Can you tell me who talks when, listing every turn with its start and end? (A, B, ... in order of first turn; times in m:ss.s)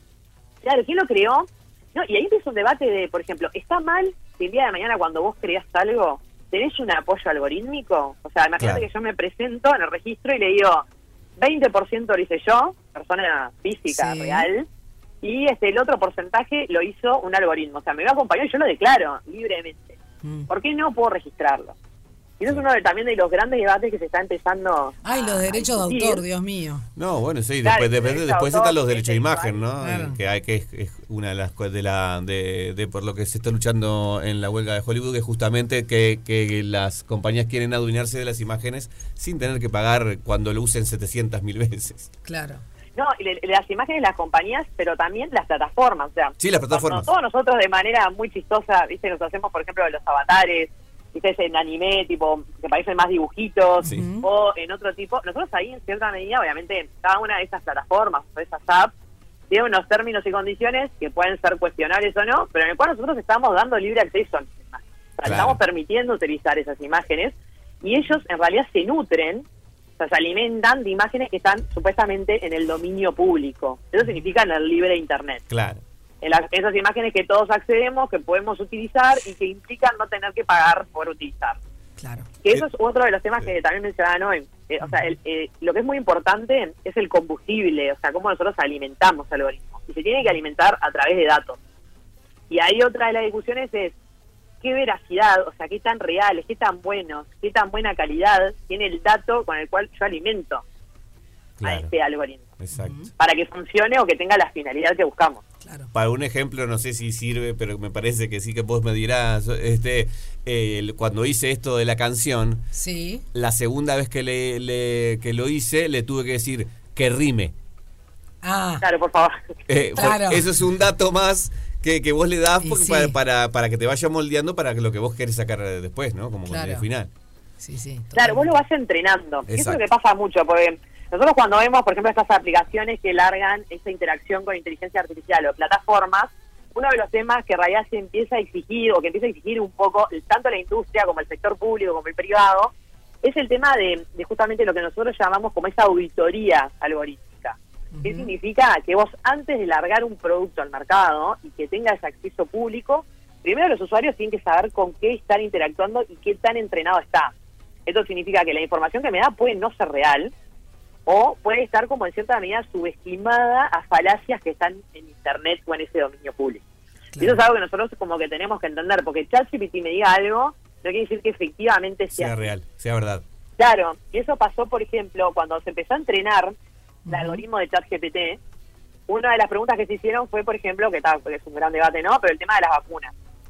0:00.6-0:10.8 A
0:08.6-0:08.9 B
0:11.4-0:14.7 A
0:13.9-0:14.5 C
0:15.2-0:20.0 A
0:20.2-0:20.5 C
0:20.5-0:21.8 A
0:22.4-0:26.2 A
0:25.0-0:26.8 C
0:27.0-0:42.1 B
0:27.6-0:29.6 A
0:29.8-0:30.2 C
0:42.2-0:42.6 C
0:43.0-0:58.9 A
0:46.4-0:47.1 B
0:53.8-0:54.3 C
0:53.8-0:54.1 B
0:59.5-1:09.4 A
1:05.2-1:05.6 B
1:10.0-1:15.4 A
1:15.5-1:15.8 B
1:16.2-1:21.6 A
1:22.0-1:22.3 C
1:22.4-1:31.6 A
1:32.5-1:34.0 A
1:34.6-1:40.6 A
1:41.6-1:41.9 B
1:41.6-1:42.5 A
1:42.6-1:43.0 B
1:42.8-1:43.1 C
1:43.2-1:45.4 A
1:45.6-1:45.9 C
1:45.9-1:52.6 B
1:52.7-1:53.2 C
1:53.3-1:57.5 B
1:58.4-1:58.8 C
1:58.8-1:59.5 A
1:59.7-2:07.1 B
2:00.0-2:00.5 C
2:02.6-2:03.2 C
2:06.5-2:06.8 C
2:07.6-2:08.6 C
2:08.2-2:22.7 A
2:09.5-2:09.8 B
2:23.2-2:37.3 A
2:27.9-2:28.3 C
2:37.9-2:40.3 A
2:41.1-2:46.6 A
2:47.2-2:47.4 C
2:47.2-2:52.5 A
2:52.1-2:53.2 B
2:53.6-2:56.6 A
2:57.1-2:57.4 C
2:57.1-2:58.4 A
2:59.1-3:03.1 A